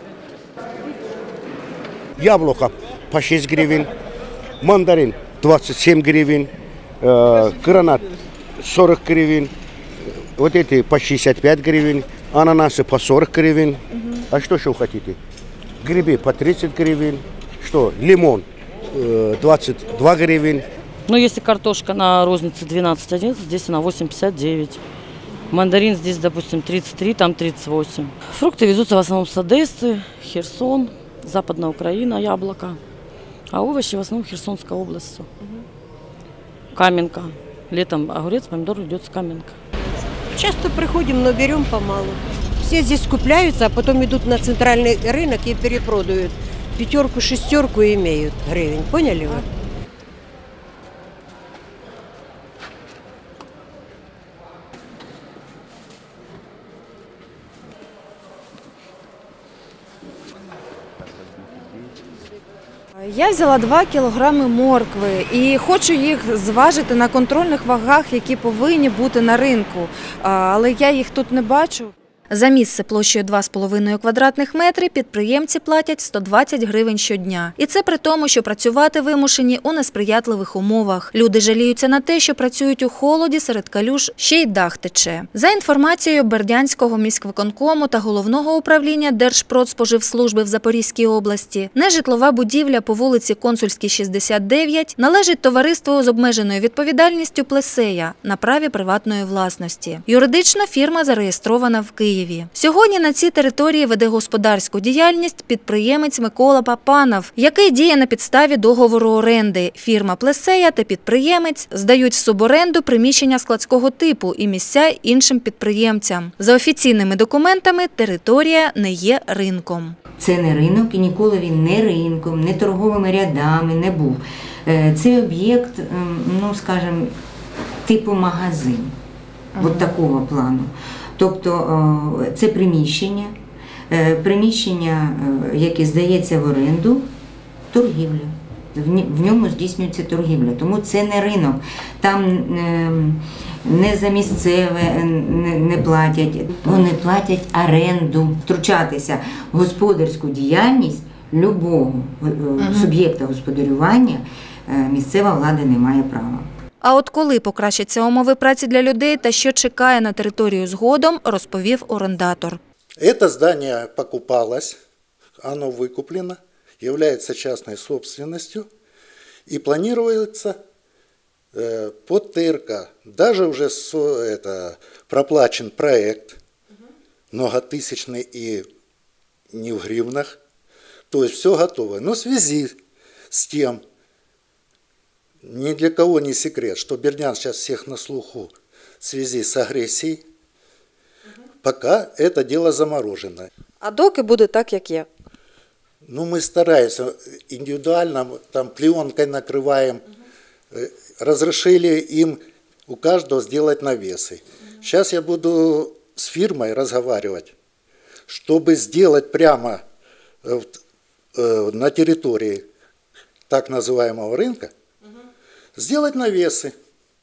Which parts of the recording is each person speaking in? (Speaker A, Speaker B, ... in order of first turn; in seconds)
Speaker A: 2.2-3.9, 4.6-8.1, 8.6-9.5, 10.4-15.2, 15.8-20.6
Speaker B: 21.1-24.8, 25.5-32.8, 33.5-35.3, 36.7-39.6
Speaker C: 40.3-49.5
Speaker D: 63.0-120.0, 129.6-129.9, 152.6-152.9, 156.8-162.6, 193.8-195.1
Speaker E: 120.2-127.1, 127.8-128.9, 129.6-133.3, 133.9-137.1, 137.7-156.5
Speaker F: 163.0-164.8, 165.4-168.7, 169.5-170.6, 171.5-176.4, 177.3-178.7, 179.5-180.4, 181.1-182.8, 183.3-183.8, 185.4-190.2, 191.6-193.5, 196.1-200.0, 200.7-207.5, 208.3-209.8, 210.4-210.7, 211.4-212.6, 213.5-214.7, 215.8-216.7